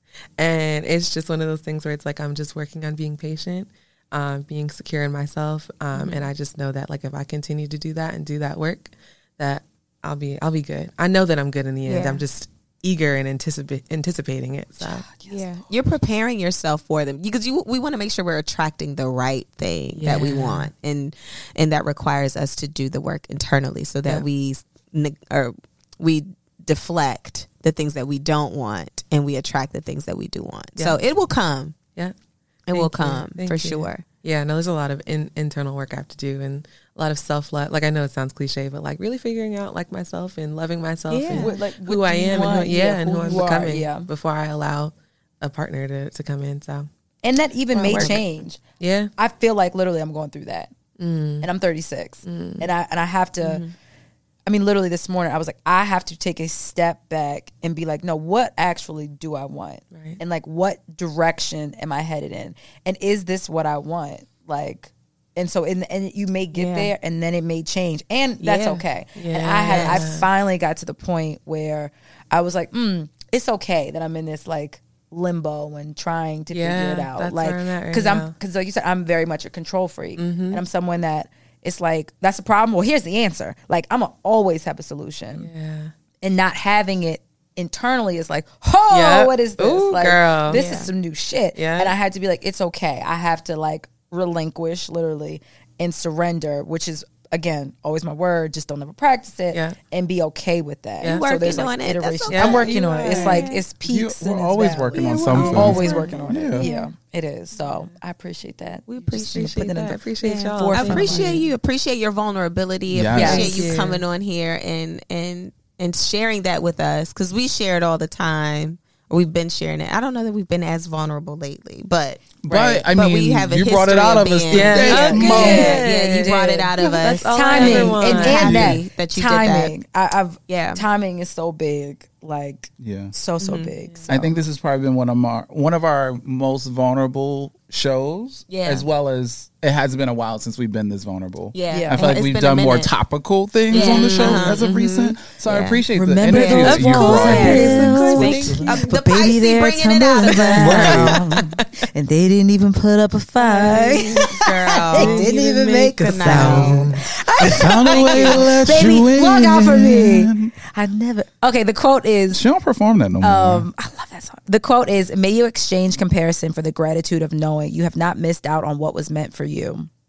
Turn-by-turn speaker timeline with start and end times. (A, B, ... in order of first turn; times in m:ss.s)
0:00.4-0:15.1 A
0:05.9-0:06.3 B
0:11.8-0:12.2 B
0:14.8-0:15.5 C
0:15.3-0:31.8 B
0:20.0-0:20.7 A
0:30.8-0:31.0 A
0:32.7-0:34.0 B
0:32.7-0:46.9 A
0:41.1-0:41.5 B
0:41.3-0:44.1 C
0:47.2-0:48.6 C
0:47.7-0:48.2 A
0:47.8-0:48.2 B
0:48.8-0:49.1 A
0:49.2-0:50.7 C
0:51.0-0:51.5 A
0:51.4-0:53.6 C
0:52.2-0:52.7 A
0:54.4-1:25.5 C
0:59.9-1:00.2 A
1:06.5-1:06.9 B
1:08.4-1:08.8 B
1:09.0-1:10.3 A
1:09.7-1:10.0 B
1:16.5-1:18.3 A
1:20.2-1:20.6 A
1:25.3-1:25.9 A
1:26.2-1:51.4 C
1:28.9-1:30.6 A
1:30.5-1:30.9 B
1:31.5-1:31.9 A
1:41.0-1:41.3 A
1:41.0-1:43.6 B
1:42.3-1:43.5 A
1:43.8-1:46.7 D
1:44.9-1:46.9 B
1:45.3-1:46.2 A
1:47.6-1:47.9 A
1:48.9-1:49.6 B
1:49.0-1:51.5 A
1:50.2-2:02.3 B
1:52.9-1:53.8 D
1:53.1-1:53.5 C
1:53.2-1:54.0 A
2:02.4-2:05.8 D
2:02.5-2:02.8 C
2:02.9-2:09.7 B
2:04.5-2:08.7 A
2:05.1-2:06.7 C
2:07.3-2:14.3 C
2:08.3-2:08.8 D
2:10.5-2:10.8 B
2:12.8-2:13.1 D
2:13.4-2:13.7 B
2:14.1-2:29.0 D
2:18.5-2:18.8 B
2:21.5-2:22.9 B
2:21.7-2:22.1 C
2:23.7-2:31.2 B
2:23.8-2:24.5 C
2:23.9-2:24.8 A
2:25.9-2:42.4 C
2:26.6-2:28.9 A
2:30.6-2:31.2 D
2:33.4-2:38.4 B
2:34.6-2:36.8 A
2:36.2-2:40.5 D
2:42.3-2:43.7 D
2:43.2-2:49.9 C